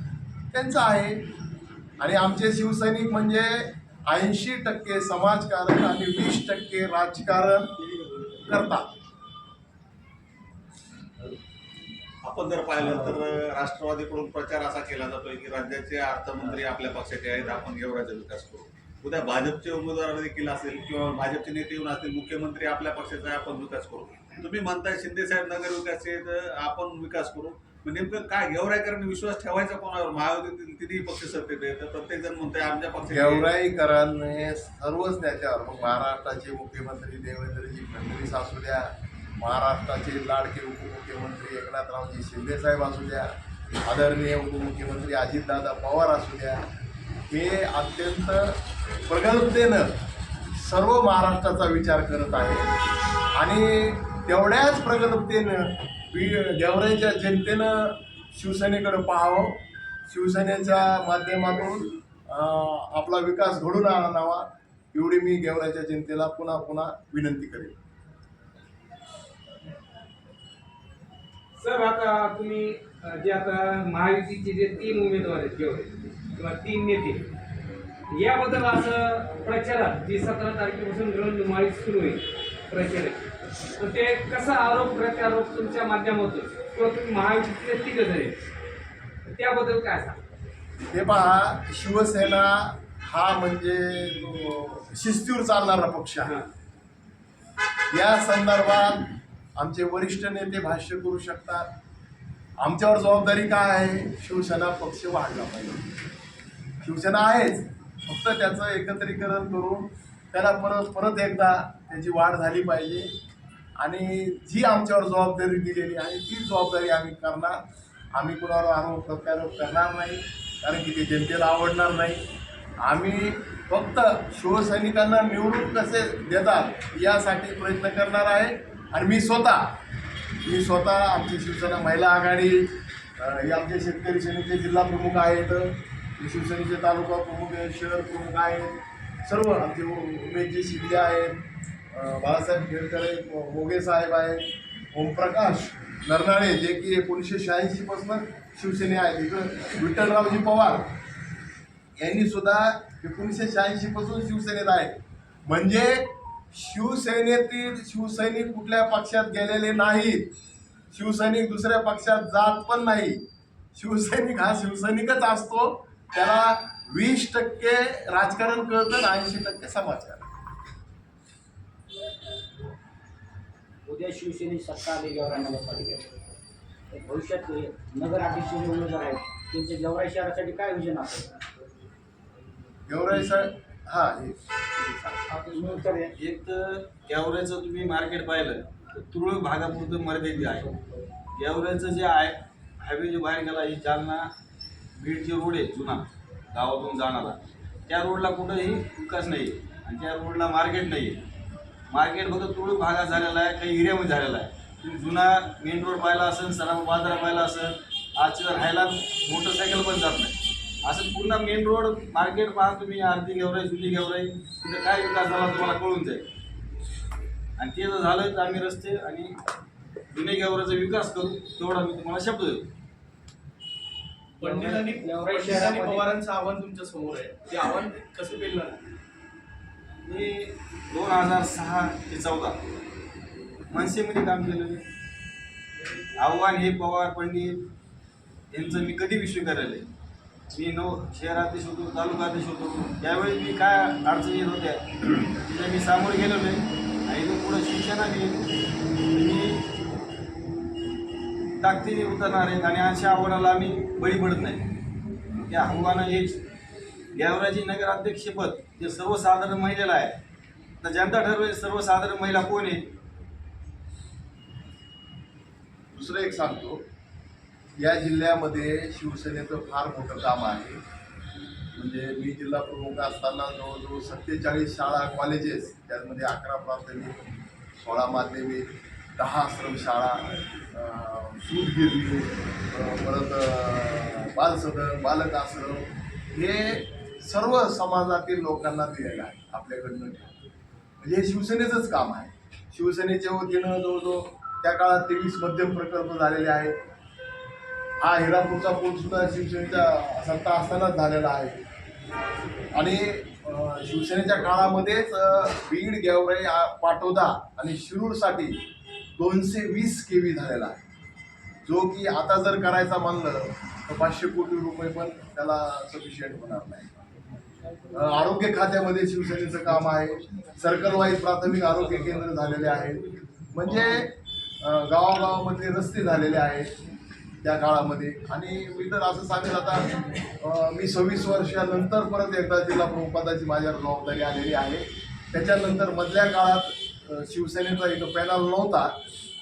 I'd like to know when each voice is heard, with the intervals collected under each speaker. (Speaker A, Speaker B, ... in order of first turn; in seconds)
Speaker A: 0.5-1.3, 2.0-8.9, 33.0-43.3, 43.9-46.6, 47.3-49.9, 50.5-52.7, 53.3-67.8, 90.9-96.4, 97.9-101.7, 102.6-105.8, 106.8-113.1, 113.8-117.6, 118.1-122.2, 122.8-129.7, 130.4-150.9, 152.0-160.3, 160.9-170.3, 182.9-185.4, 265.9-266.8, 267.8-270.8, 271.7-277.2, 277.8-290.3, 291.0-296.8, 298.0-301.6, 302.7-308.6, 309.2-310.8, 311.6-316.9, 317.9-326.7, 327.4-338.9
Speaker B: 12.2-33.5
Speaker C: 71.6-77.2, 78.1-83.2, 83.8-88.3, 89.2-90.2
Speaker D: 173.8-176.1, 176.9-181.3, 185.5-186.1, 224.4-226.1
Speaker E: 186.2-190.7, 191.3-194.3, 194.9-201.2, 201.9-216.2, 217.6-219.3, 220.1-222.6, 230.0-232.6, 233.7-234.8, 236.2-237.6, 238.5-239.8, 240.5-248.4, 249.1-249.6, 251.6-254.7, 255.5-256.4, 257.1-260.1, 260.8-262.9
Speaker F: 224.4-228.8